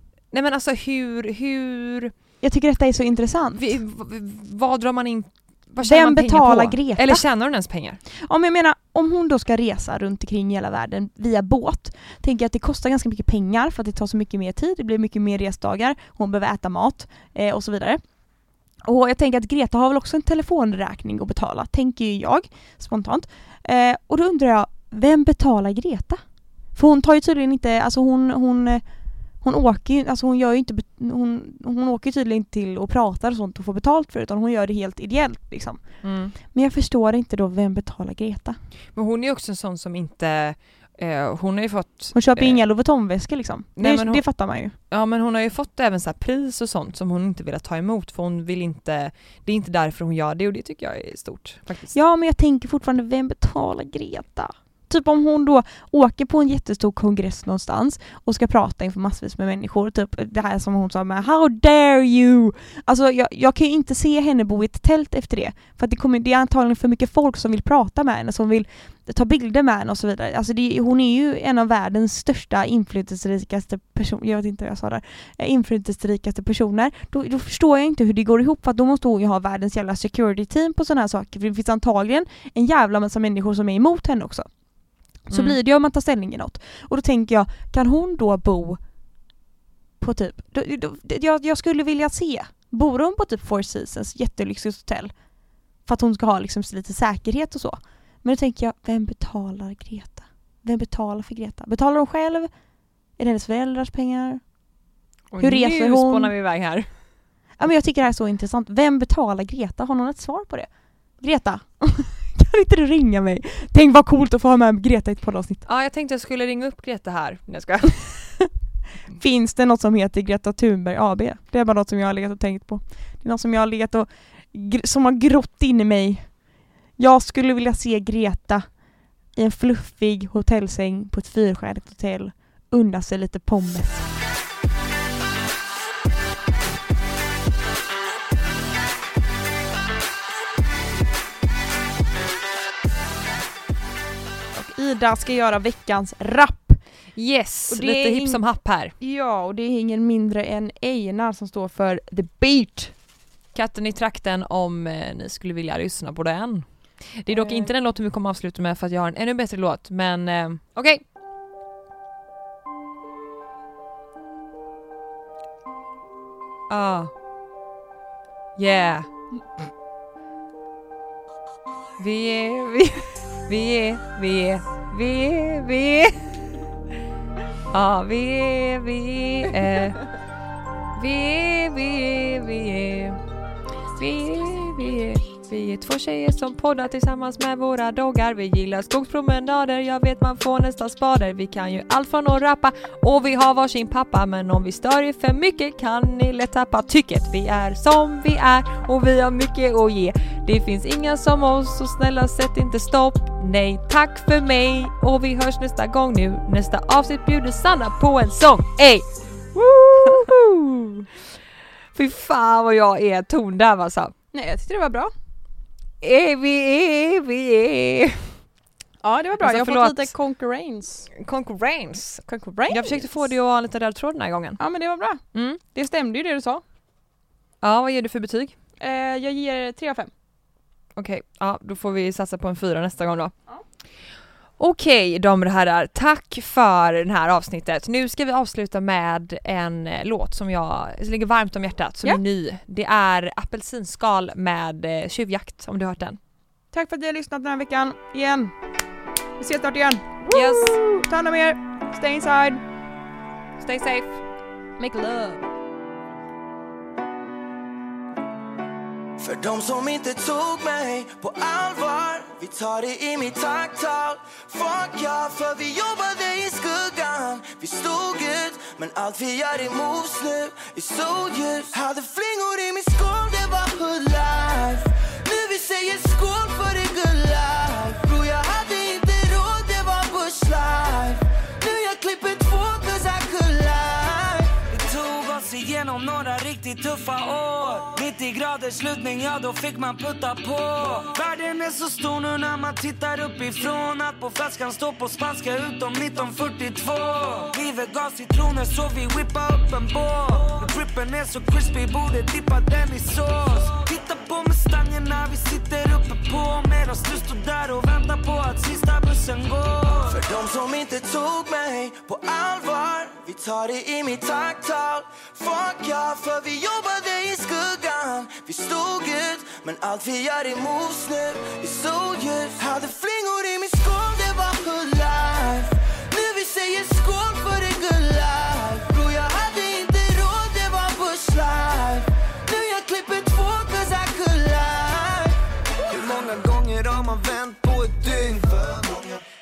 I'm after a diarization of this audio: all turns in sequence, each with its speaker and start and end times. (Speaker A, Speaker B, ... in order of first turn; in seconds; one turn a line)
Speaker A: 0.3-2.1
Speaker B: 2.4-3.7
Speaker A: 3.6-8.0
Speaker B: 5.8-7.2
Speaker B: 8.3-18.0
Speaker B: 18.9-26.2
Speaker B: 26.8-28.8
Speaker B: 29.4-35.8
Speaker A: 36.0-36.3
Speaker B: 36.5-38.6
Speaker A: 39.0-42.6
Speaker B: 42.1-44.7
Speaker A: 43.8-44.2
Speaker A: 44.9-52.0
Speaker B: 51.9-84.5
Speaker B: 85.3-88.8
Speaker B: 90.0-95.1
Speaker B: 95.9-102.5
Speaker B: 103.2-104.4
Speaker A: 105.3-106.9
Speaker B: 105.4-106.3
Speaker B: 107.6-110.7
Speaker B: 111.2-115.7
Speaker A: 115.7-118.0
Speaker B: 119.2-126.3
Speaker B: 127.0-128.7
Speaker B: 129.4-134.1
Speaker B: 144.5-146.8
Speaker A: 147.2-148.9
Speaker B: 147.7-148.4
Speaker B: 149.0-152.9
Speaker A: 153.5-161.0
Speaker B: 157.3-157.7
Speaker A: 166.7-167.1
Speaker A: 168.6-169.1
Speaker A: 172.0-176.3
Speaker A: 177.7-180.0
Speaker A: 180.9-183.2
Speaker A: 184.0-211.1
Speaker A: 211.9-214.1
Speaker B: 214.3-215.1
Speaker A: 216.0-218.3
Speaker B: 219.0-221.1
Speaker A: 219.4-220.1
Speaker A: 221.1-224.6
Speaker B: 222.3-223.3
Speaker B: 224.6-226.6
Speaker A: 225.3-225.6
Speaker A: 227.6-228.6
Speaker B: 228.8-230.1
Speaker A: 231.0-233.3
Speaker A: 234.6-246.2
Speaker B: 246.7-248.5
Speaker B: 249.4-252.6
Speaker A: 250.3-250.9
Speaker A: 253.6-254.2
Speaker B: 254.8-255.4
Speaker C: 259.2-284.6
Speaker D: 284.7-310.2
Speaker C: 310.1-335.4
Speaker E: 335.9-339.0